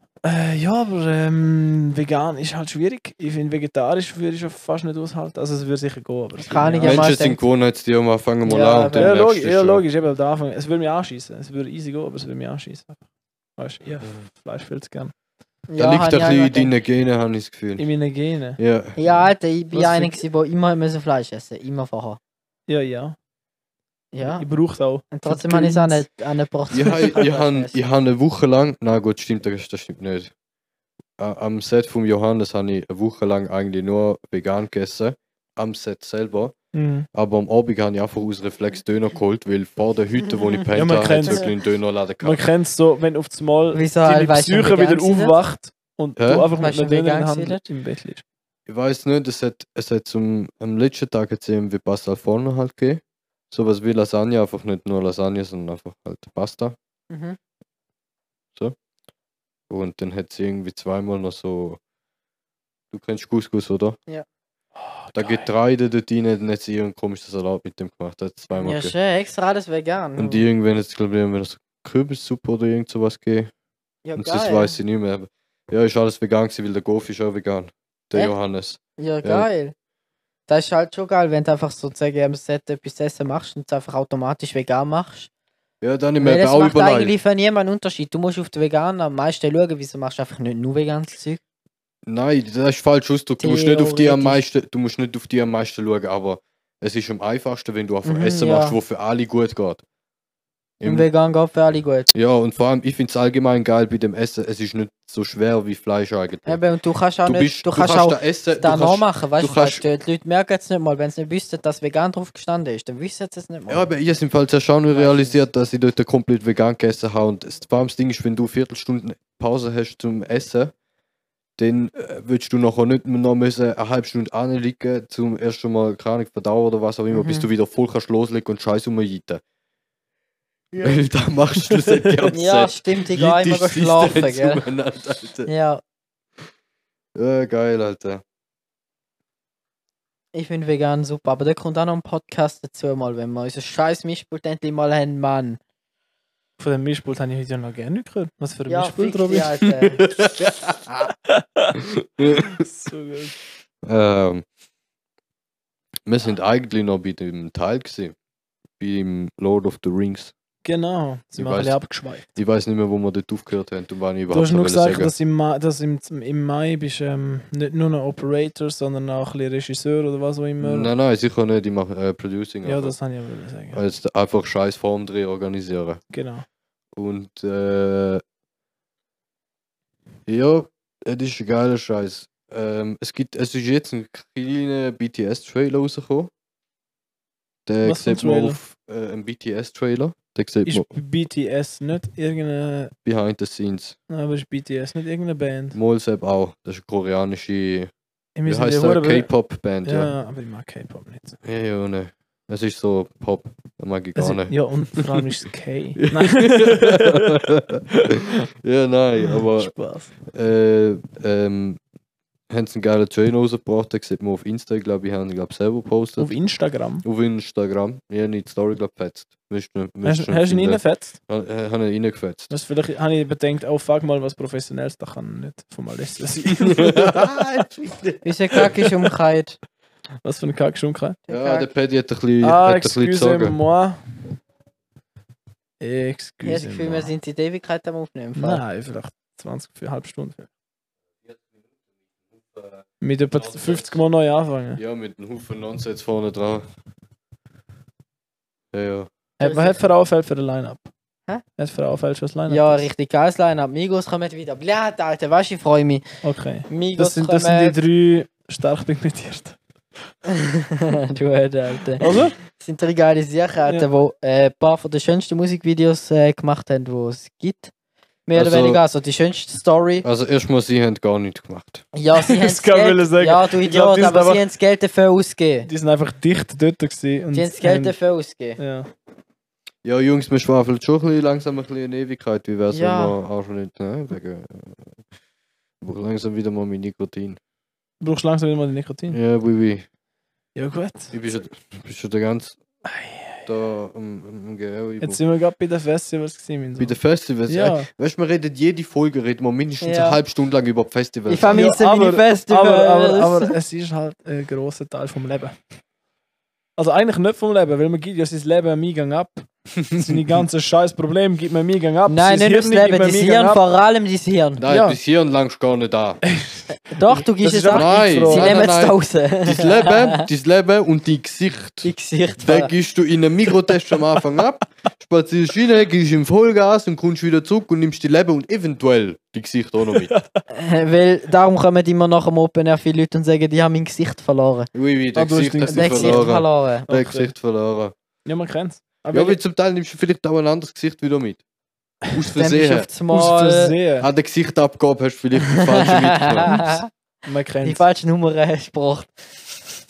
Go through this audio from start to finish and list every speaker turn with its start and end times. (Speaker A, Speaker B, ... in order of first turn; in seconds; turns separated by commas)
Speaker A: 0.2-7.1, Speaker B: 6.4-7.4, Speaker C: 6.8-9.8, Speaker B: 8.4-9.1, Speaker A: 8.9-13.0, Speaker A: 13.6-15.1, Speaker B: 15.7-16.7, Speaker C: 15.8-17.9, Speaker A: 17.8-20.2, Speaker C: 18.6-19.0, Speaker B: 19.0-22.2, Speaker A: 22.7-23.2, Speaker B: 24.1-24.5, Speaker A: 24.2-26.0, Speaker B: 25.1-27.8, Speaker C: 26.7-30.3, Speaker C: 31.2-36.5, Speaker A: 36.7-37.1, Speaker C: 37.1-42.4, Speaker A: 40.7-41.5, Speaker A: 42.2-48.2, Speaker B: 43.7-45.4, Speaker C: 46.2-46.5, Speaker B: 46.6-47.6, Speaker C: 48.7-56.8, Speaker B: 57.1-57.4, Speaker C: 59.7-61.8, Speaker C: 62.9-64.0, Speaker A: 64.8-65.5, Speaker C: 65.1-68.9, Speaker B: 68.6-70.4, Speaker C: 70.2-73.5, Speaker B: 74.0-74.8, Speaker C: 74.2-79.5, Speaker B: 79.0-79.7, Speaker B: 80.5-85.3, Speaker C: 85.8-87.1, Speaker B: 86.2-91.4, Speaker C: 92.0-99.8, Speaker B: 93.4-94.4, Speaker B: 98.0-98.8, Speaker C: 100.8-101.1, Speaker B: 100.8-102.1, Speaker C: 102.1-106.6, Speaker B: 106.5-113.9, Speaker C: 107.2-109.8, Speaker C: 113.7-120.7, Speaker B: 114.9-115.4, Speaker C: 121.6-129.4, Speaker B: 127.1-127.5, Speaker B: 130.7-131.0, Speaker C: 130.8-135.5, Speaker A: 131.7-132.3, Speaker B: 132.3-134.6, Speaker B: 135.5-135.8, Speaker C: 137.2-138.2, Speaker B: 140.3-145.6, Speaker A: 146.6-149.7, Speaker B: 148.7-150.1, Speaker C: 150.0-151.1, Speaker A: 151.3-151.8, Speaker C: 151.8-152.6, Speaker A: 152.4-153.3, Speaker C: 153.8-154.4, Speaker C: 156.1-158.1, Speaker C: 158.8-160.3, Speaker A: 160.6-162.2, Speaker C: 161.3-165.1, Speaker A: 164.3-170.9, Speaker C: 170.6-172.9, Speaker A: 172.6-173.8, Speaker C: 173.7-176.0, Speaker A: 176.1-176.4, Speaker C: 176.9-178.2, Speaker C: 180.3-186.3, Speaker C: 187.7-190.9, Speaker A: 187.8-188.6, Speaker A: 190.7-192.9, Speaker C: 193.0-193.9, Speaker A: 194.1-195.8, Speaker C: 195.7-197.9, Speaker A: 198.4-199.3, Speaker C: 198.4-200.1, Speaker A: 199.8-201.4, Speaker C: 201.4-205.2, Speaker A: 204.2-207.4, Speaker C: 206.0-209.7, Speaker A: 209.3-210.1, Speaker C: 210.3-211.8, Speaker C: 212.5-216.3, Speaker A: 216.2-217.0, Speaker C: 217.0-222.5, Speaker A: 220.0-221.2, Speaker A: 222.5-227.4, Speaker C: 226.4-228.7, Speaker B: 228.2-229.6, Speaker A: 228.6-229.1, Speaker A: 230.2-231.2, Speaker B: 231.3-231.7, Speaker C: 231.3-233.6, Speaker A: 232.4-234.1, Speaker A: 235.8-237.1, Speaker B: 236.4-238.6, Speaker A: 238.4-240.5, Speaker C: 242.3-244.0, Speaker A: 243.0-244.8, Speaker C: 244.8-246.7, Speaker C: 248.7-249.1, Speaker A: 249.4-250.9, Speaker B: 249.4-249.8, Speaker A: 251.6-252.9, Speaker B: 252.5-256.1, Speaker A: 256.2-259.6, Speaker B: 256.7-257.8, Speaker B: 260.2-267.7, Speaker A: 262.0-262.4, Speaker B: 268.3-270.0, Speaker C: 268.4-268.8, Speaker C: 270.0-271.9, Speaker B: 271.9-275.7, Speaker A: 272.2-274.4, Speaker A: 275.6-277.9, Speaker B: 277.3-278.6, Speaker A: 278.6-278.9, Speaker C: 279.9-284.9, Speaker B: 282.7-283.1, Speaker C: 285.8-287.4, Speaker A: 288.0-289.2, Speaker C: 289.1-289.9, Speaker A: 290.5-291.1, Speaker C: 291.1-292.6, Speaker A: 292.9-293.5, Speaker C: 293.4-295.2, Speaker A: 295.0-297.9, Speaker C: 296.8-301.7, Speaker B: 299.8-300.2, Speaker B: 301.3-303.6, Speaker A: 301.5-305.6, Speaker A: 306.8-313.6, Speaker C: 309.8-310.1, Speaker B: 312.1-314.6, Speaker C: 314.6-316.2, Speaker A: 314.7-315.0, Speaker A: 316.2-318.7, Speaker B: 316.9-320.2, Speaker C: 317.7-330.1, Speaker B: 321.8-322.7, Speaker A: 329.9-330.4, Speaker B: 330.5-334.7, Speaker C: 334.7-337.9, Speaker A: 335.1-336.3, Speaker B: 335.7-336.9, Speaker A: 336.9-337.3, Speaker A: 338.2-339.4, Speaker C: 339.1-341.4, Speaker C: 342.1-342.9, Speaker B: 342.4-343.7, Speaker A: 343.1-344.1, Speaker C: 344.0-346.8, Speaker B: 345.7-346.9, Speaker A: 347.2-347.8, Speaker B: 347.6-349.6